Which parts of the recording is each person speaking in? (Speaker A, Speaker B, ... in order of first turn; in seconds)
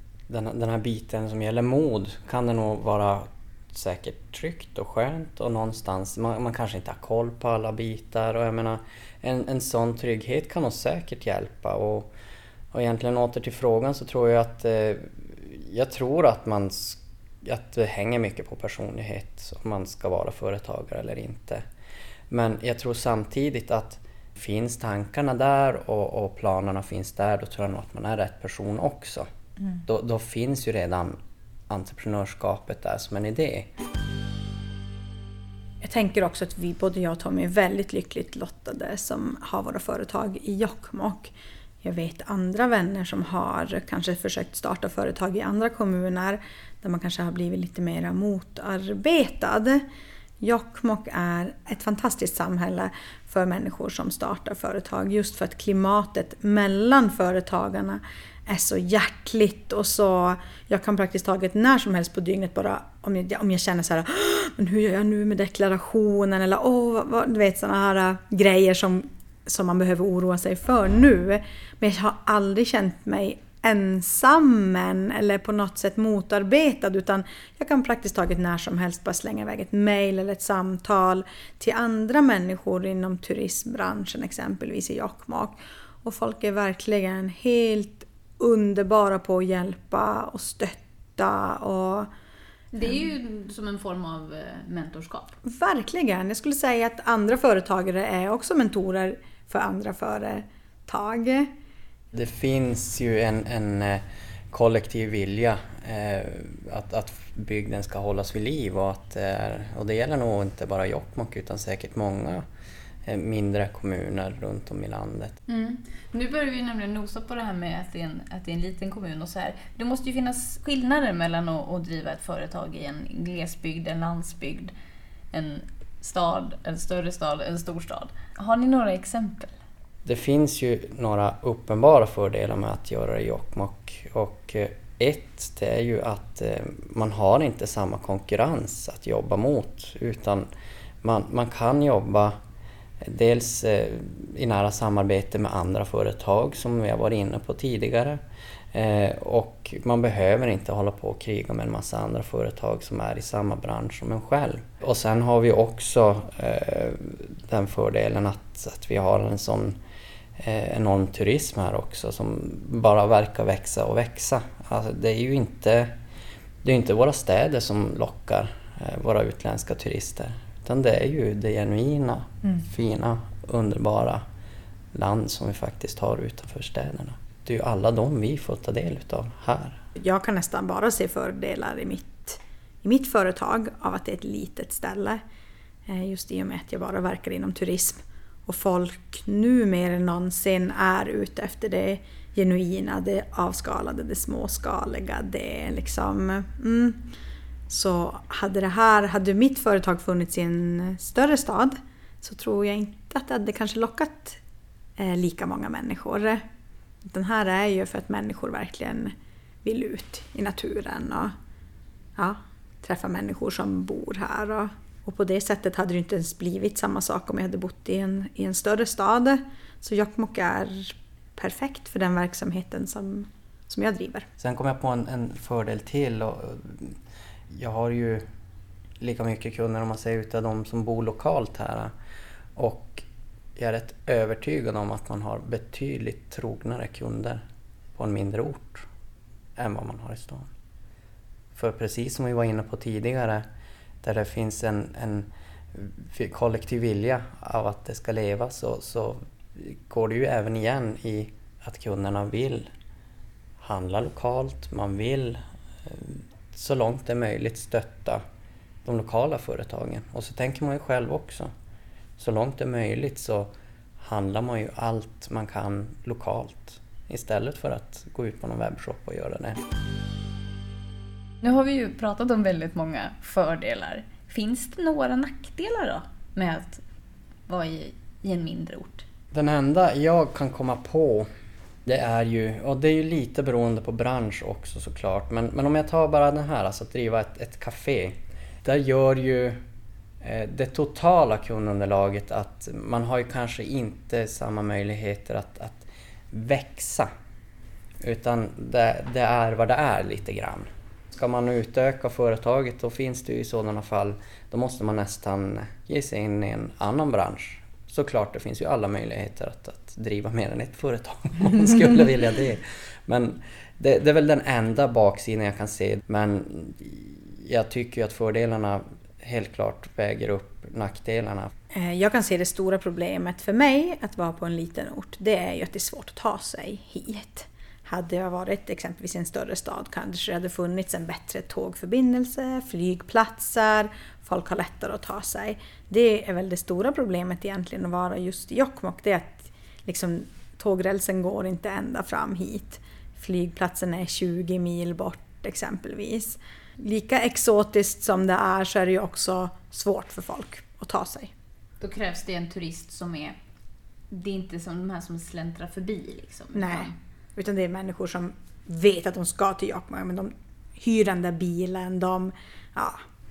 Speaker A: 0.3-12.1, 12.7-21.6, 22.3-29.3, 29.9-31.2, 31.7-33.7, 102.1-112.4, 113.1-115.4, 130.1-140.5, 141.0-142.3, 143.0-148.2, 148.7-159.8, 160.4-165.9, 166.6-174.2, 174.9-179.8, 224.4-227.0, 227.5-228.2, 229.0-231.9, 232.6-233.1, 233.6-237.4, 238.0-238.9, 239.6-240.5, 241.5-243.4, 244.0-252.7, 253.6-258.2, 258.9-261.5, 262.2-269.6, 279.3-281.3, 281.9-289.6, 290.2-297.1, 298.0-321.5
Speaker B: 35.8-49.8, 50.4-92.1, 95.4-101.5, 180.0-185.2, 185.9-197.1, 197.7-204.4, 205.0-206.4, 207.1-209.1, 209.6-211.3, 212.2-224.3, 321.8-351.3, 356.5-363.0
Speaker C: 92.7-95.4, 115.5-124.7, 125.3-129.5, 271.4-276.8, 277.5-279.1, 351.8-353.4, 354.1-356.9